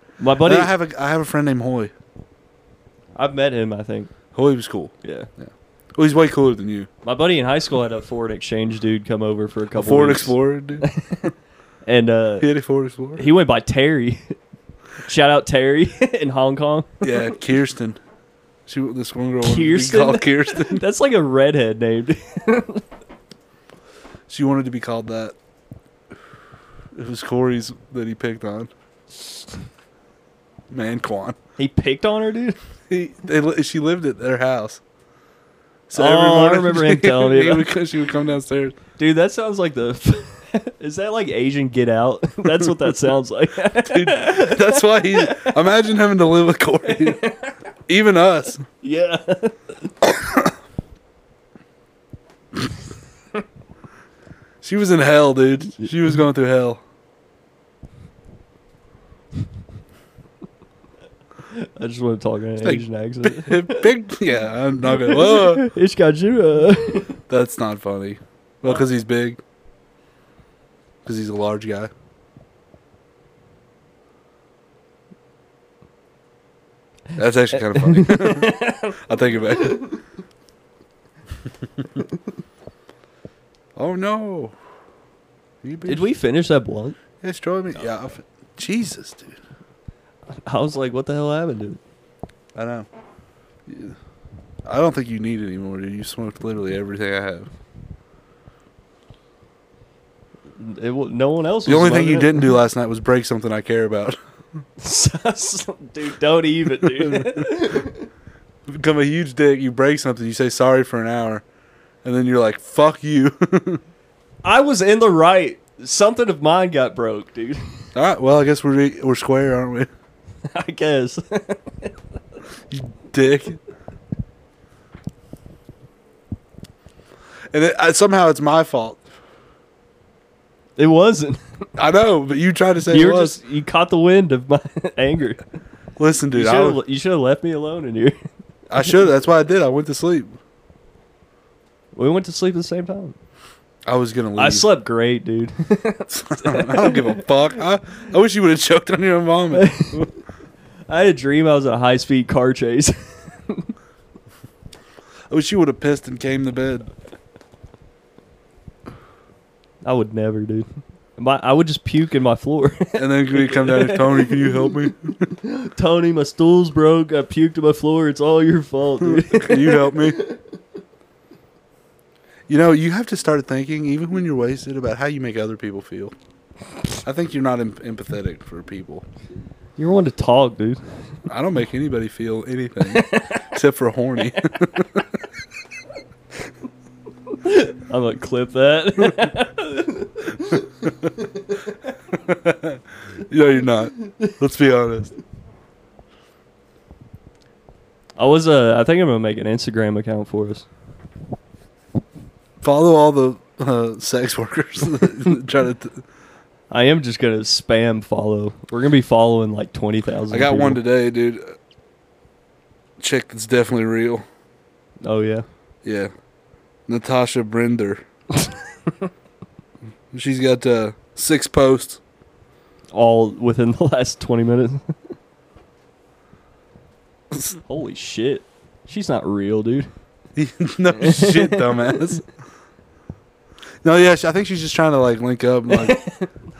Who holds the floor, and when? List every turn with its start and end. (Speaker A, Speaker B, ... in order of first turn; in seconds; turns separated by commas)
Speaker A: 0.2-0.7, Speaker B: 0.4-1.9, Speaker A: 3.1-4.1, Speaker B: 4.3-6.9, Speaker A: 5.0-5.3, Speaker A: 7.0-11.3, Speaker B: 9.7-10.8, Speaker A: 11.8-12.5, Speaker B: 12.4-13.2, Speaker A: 13.2-14.3, Speaker A: 15.0-17.3, Speaker B: 17.0-18.0, Speaker B: 18.7-20.8, Speaker A: 19.4-22.8, Speaker B: 24.3-25.3, Speaker B: 26.9-28.7, Speaker B: 30.7-31.4, Speaker A: 31.6-32.6, Speaker B: 32.9-34.8, Speaker B: 35.9-38.8, Speaker A: 35.9-37.7, Speaker A: 39.0-45.5, Speaker B: 43.8-47.2, Speaker A: 46.9-47.5, Speaker B: 47.9-48.6, Speaker A: 48.8-49.9, Speaker B: 50.2-50.5, Speaker B: 54.6-56.8, Speaker A: 61.5-63.9, Speaker B: 62.6-65.7, Speaker A: 64.9-67.1, Speaker B: 67.3-69.4, Speaker B: 71.0-71.9, Speaker B: 77.2-79.9, Speaker A: 77.7-79.0, Speaker B: 83.8-84.5, Speaker B: 85.6-86.1, Speaker A: 85.8-87.0, Speaker B: 87.2-89.4, Speaker A: 90.5-91.8, Speaker B: 92.5-92.9, Speaker B: 93.7-94.0, Speaker B: 94.7-97.5, Speaker A: 100.6-102.5, Speaker B: 101.7-104.2, Speaker A: 104.8-108.1, Speaker B: 106.8-107.8, Speaker B: 108.7-111.4, Speaker B: 112.0-113.8, Speaker A: 114.4-117.6, Speaker B: 117.9-119.9, Speaker A: 120.4-121.9, Speaker B: 122.7-123.6, Speaker B: 127.5-129.0, Speaker A: 130.8-131.4, Speaker B: 131.8-133.4, Speaker A: 132.9-135.4, Speaker B: 136.0-136.8, Speaker A: 136.3-138.2, Speaker B: 138.7-140.3, Speaker A: 141.9-143.1, Speaker B: 143.8-144.7, Speaker A: 144.4-147.2, Speaker B: 146.1-150.1, Speaker A: 149.5-150.0, Speaker A: 150.9-152.9, Speaker B: 155.3-156.9, Speaker A: 159.8-160.7, Speaker A: 161.2-164.7, Speaker B: 162.9-165.3, Speaker A: 165.4-170.4, Speaker B: 169.0-170.2, Speaker B: 172.5-176.1, Speaker B: 177.0-179.0, Speaker A: 179.8-180.8, Speaker B: 181.3-185.1, Speaker A: 182.8-183.5, Speaker A: 187.4-191.4, Speaker B: 192.1-195.1, Speaker A: 198.2-200.7, Speaker B: 202.6-206.0, Speaker A: 206.7-210.8, Speaker B: 210.3-211.5, Speaker B: 213.0-214.2, Speaker A: 215.0-215.4, Speaker B: 215.8-216.1, Speaker B: 216.9-218.0, Speaker B: 220.1-222.0, Speaker A: 222.9-224.9, Speaker A: 227.6-229.9, Speaker B: 230.3-232.2, Speaker A: 230.9-232.0, Speaker B: 233.8-236.0, Speaker A: 235.7-236.2